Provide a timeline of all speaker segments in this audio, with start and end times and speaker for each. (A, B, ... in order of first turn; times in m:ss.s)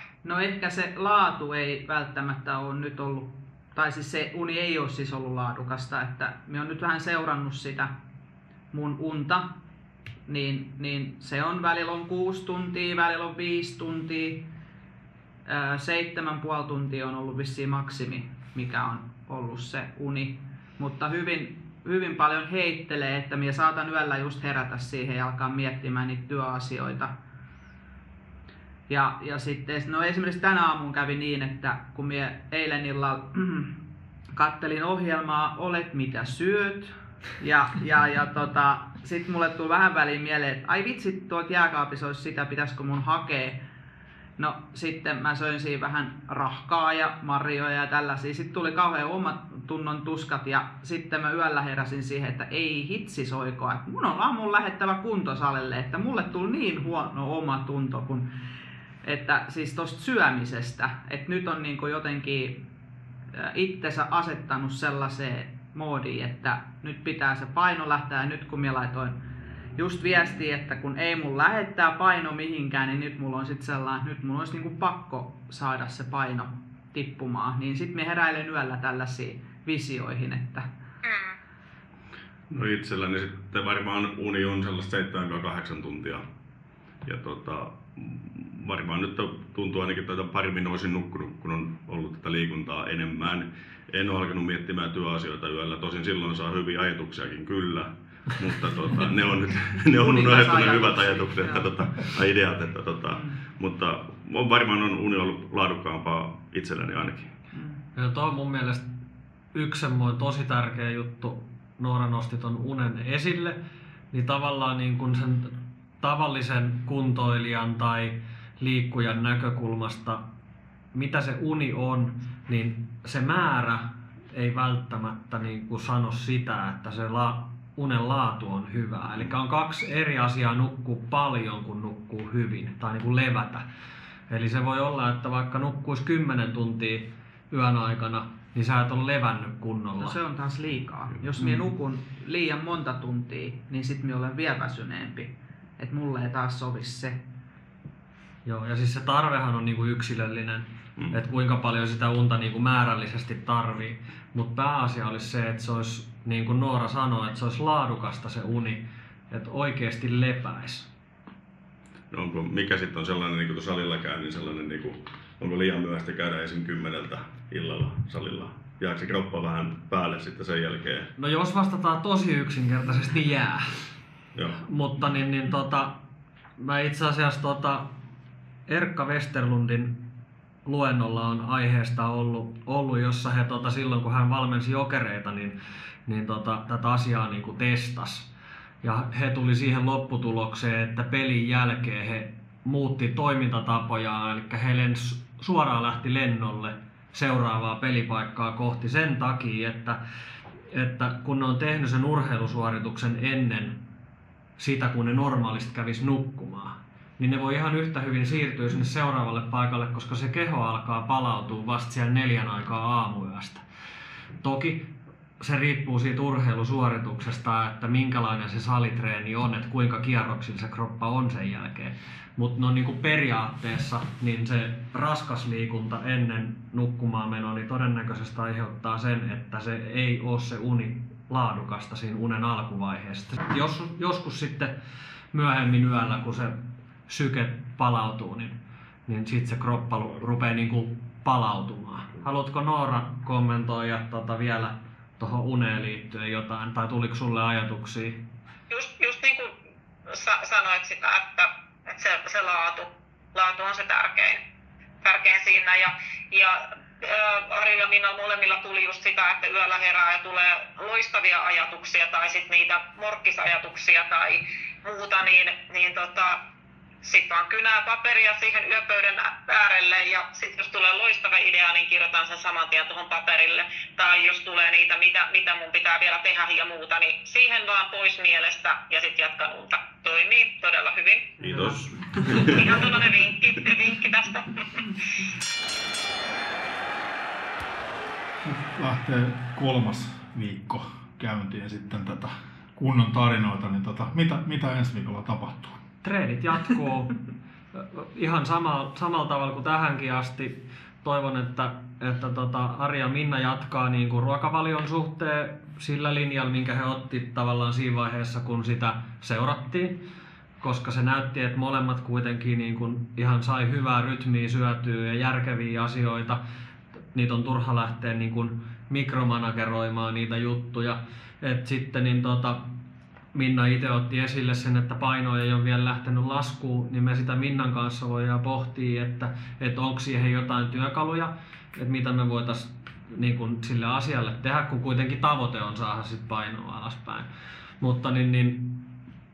0:00.2-0:07.9 A
0:08.7-0:09.5 A
0:10.3-0:14.5 A
0:15.5-0:27.1 A
0:28.9-0:33.7 A
0:34.4-0:43.6 A
0:44.4-0:58.3 A
0:59.0-1:02.6 A
1:03.4-1:09.2 A
1:09.8-1:20.7 A
1:21.0-1:21.4 B
1:22.5-1:26.2 C
1:27.0-1:47.3 C
1:39.9-1:42.1 A
1:43.1-1:43.4 A
1:47.5-1:47.8 A
1:48.0-1:48.9 D
1:49.5-1:53.6 D
1:54.1-2:00.2 D
2:00.9-2:13.6 D
2:14.3-2:20.2 D
2:20.0-2:27.2 A
2:28.4-2:40.9 D
2:42.1-2:51.1 C
2:51.2-2:53.8 D
2:54.4-2:54.6 C
2:54.6-2:56.0 D
2:56.6-2:57.9 D
2:58.7-3:00.0 D
3:00.7-3:05.6 D
3:06.1-3:08.3 D
3:08.8-3:20.0 D
3:20.7-3:23.8 D
3:24.6-3:33.6 D
3:34.4-3:54.7 D
3:55.3-4:08.2 D
4:08.7-4:09.5 B
4:10.1-4:14.4 B
4:15.0-4:26.4 B
4:27.0-4:41.3 B
4:41.4-4:43.1 C
4:42.2-4:42.7 A
4:42.5-4:45.0 B
4:48.4-4:55.8 E
4:56.0-4:57.2 D
4:57.8-5:10.0 D
5:10.6-5:16.4 D
5:17.1-5:22.7 D
5:23.4-5:37.3 D
5:37.8-5:38.9 D